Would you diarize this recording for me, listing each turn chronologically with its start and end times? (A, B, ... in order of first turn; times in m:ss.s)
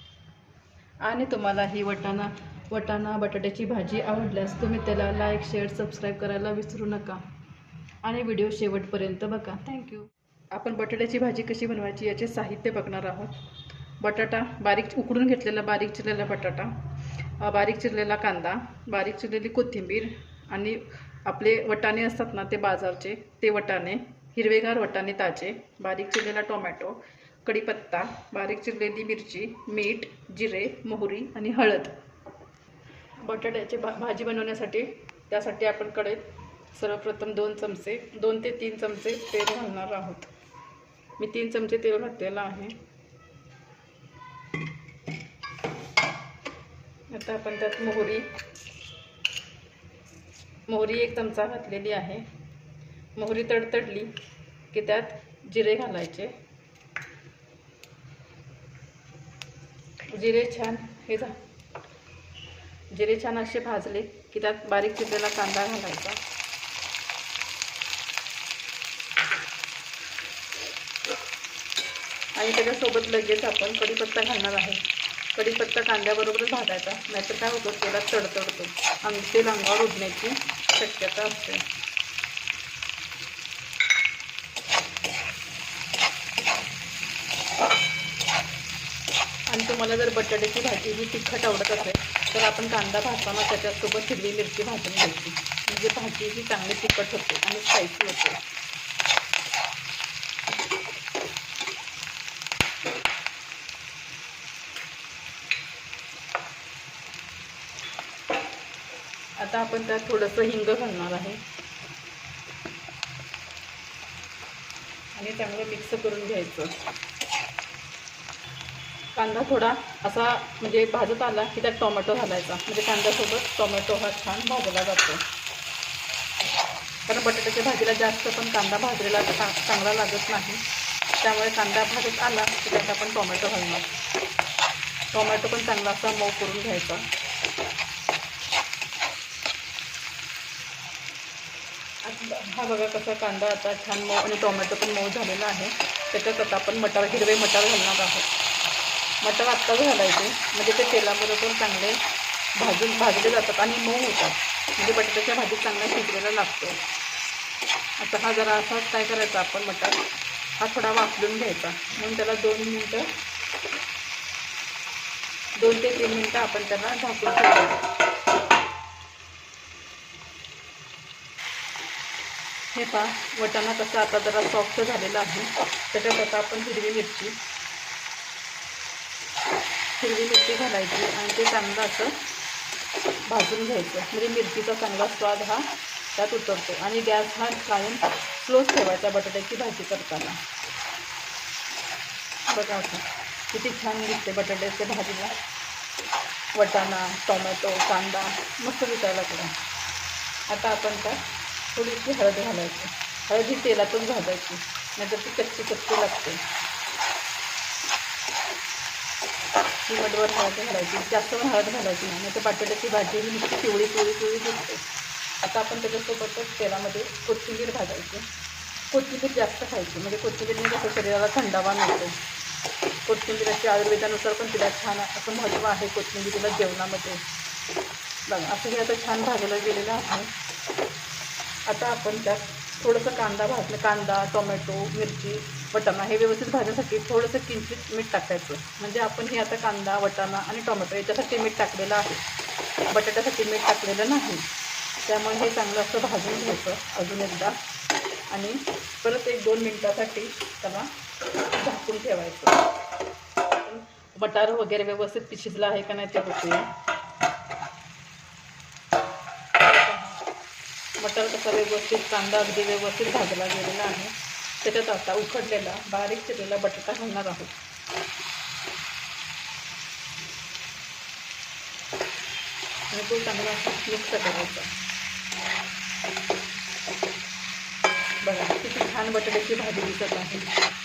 0:01.0-0:07.2 A
0:08.0-0:13.4 A
0:14.0-0:32.0 A
0:33.2-0:40.3 A
0:41.2-0:42.8 A
0:47.1-0:48.3 A
0:50.7-0:52.3 A
0:53.2-0:54.1 A
0:54.7-0:56.3 A
1:00.1-1:01.4 A
1:02.9-1:06.2 A
1:12.4-1:14.8 A
1:15.3-1:21.6 A
1:29.5-1:38.4 A
1:49.4-1:51.4 A
1:55.1-1:56.8 A
1:59.1-2:05.2 A
2:07.1-2:10.6 A
2:11.2-2:13.9 A
2:15.1-2:17.0 A
2:22.0-2:28.3 A
2:29.2-2:32.0 A
2:32.6-2:36.8 A
2:38.0-2:40.0 A
2:40.6-2:43.1 A
2:45.6-2:47.8 A
2:52.7-2:57.4 A
3:00.0-3:02.2 A
3:03.2-3:10.4 A
3:12.5-3:15.4 A
3:16.5-3:19.5 A
3:20.5-3:26.4 A
3:29.8-3:34.8 A
3:35.4-3:38.2 A
3:38.9-3:42.2 A
3:43.0-3:47.2 A
3:48.3-3:50.3 A
3:51.6-4:02.2 A
4:02.9-4:04.4 A
4:05.0-4:07.6 A
4:08.3-4:10.9 A
4:11.5-4:12.6 A
4:13.6-4:16.7 A
4:19.6-4:20.2 A
4:21.0-4:27.6 A
4:32.9-4:34.7 A
4:38.2-4:40.5 A